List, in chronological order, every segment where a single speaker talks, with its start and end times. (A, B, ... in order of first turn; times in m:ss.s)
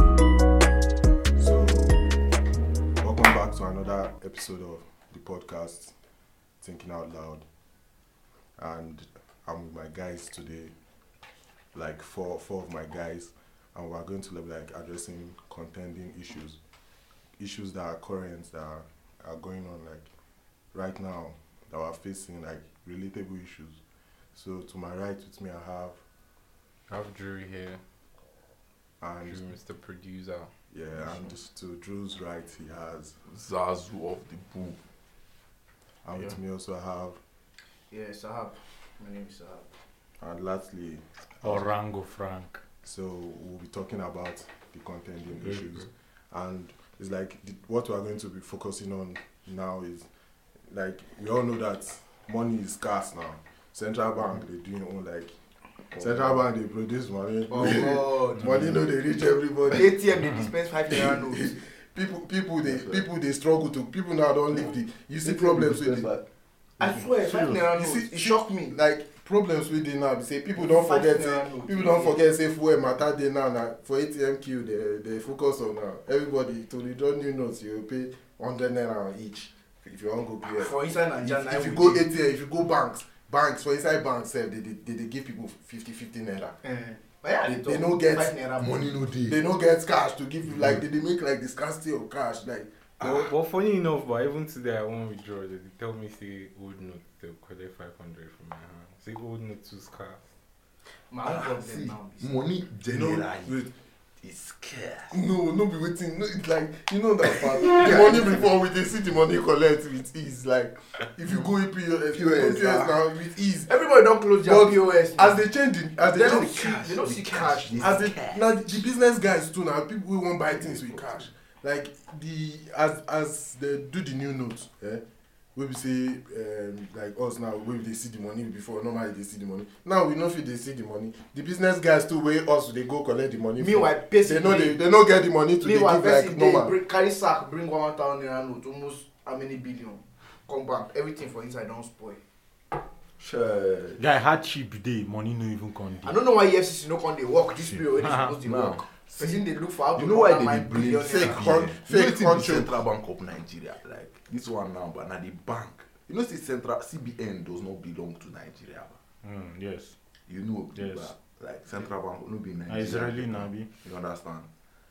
0:01.4-0:02.0 A
0:03.0-0:05.9 A
0:06.6-0:07.4 A
0:08.6-0:10.7 A
0:11.7-0:16.6 A
0:17.4-0:20.1 A
0:20.7-0:23.8 A
0:24.3-0:26.0 A
0:26.9-0:27.8 B
0:29.0-0:29.5 A
0:29.2-0:30.5 B
0:30.7-0:33.2 A
0:33.3-0:34.8 C
0:36.0-0:37.2 A
0:37.9-0:39.7 D
0:40.2-0:41.7 A
0:41.4-0:42.6 E
0:42.8-0:50.1 A
0:50.7-0:55.3 A
0:55.9-0:56.4 C
0:55.9-0:59.9 A
0:57.5-0:58.5 D
0:57.5-0:58.8 C
0:59.7-1:01.6 D
1:01.0-1:06.1 A
1:02.6-1:03.1 C
1:05.2-1:06.2 C
1:06.8-1:08.8 D
1:06.9-1:07.7 E
1:07.7-1:26.6 A
1:10.6-1:12.2 D
1:20.4-1:22.0 D
1:26.6-1:29.0 D
1:27.4-1:28.3 A
1:28.6-1:29.4 C
1:29.3-1:32.9 A
1:30.5-1:30.8 C
1:33.0-1:40.3 B
1:33.0-1:33.3 C
1:41.1-1:42.4 D
1:41.2-1:43.6 C
1:42.9-1:43.7 A
1:44.2-1:45.2 C
1:45.1-1:53.7 A
1:47.5-1:48.0 C
1:47.8-1:48.2 D
1:52.1-1:53.0 C
1:53.7-1:55.4 D
1:54.4-1:56.6 A
1:56.0-1:58.1 D
1:56.2-1:58.5 C
1:57.8-2:05.0 A
2:00.6-2:01.3 C
2:05.6-2:16.8 A
2:13.6-2:14.8 D
2:15.6-2:22.2 D
2:23.2-2:24.0 C
2:24.0-2:26.2 E
2:26.0-2:31.5 D
2:27.7-2:28.4 E
2:28.4-2:28.8 C
2:30.0-2:39.0 C
2:31.0-2:32.8 A
2:39.2-2:40.0 E
2:40.3-2:44.5 C
2:40.8-2:41.1 E
2:42.7-2:43.7 E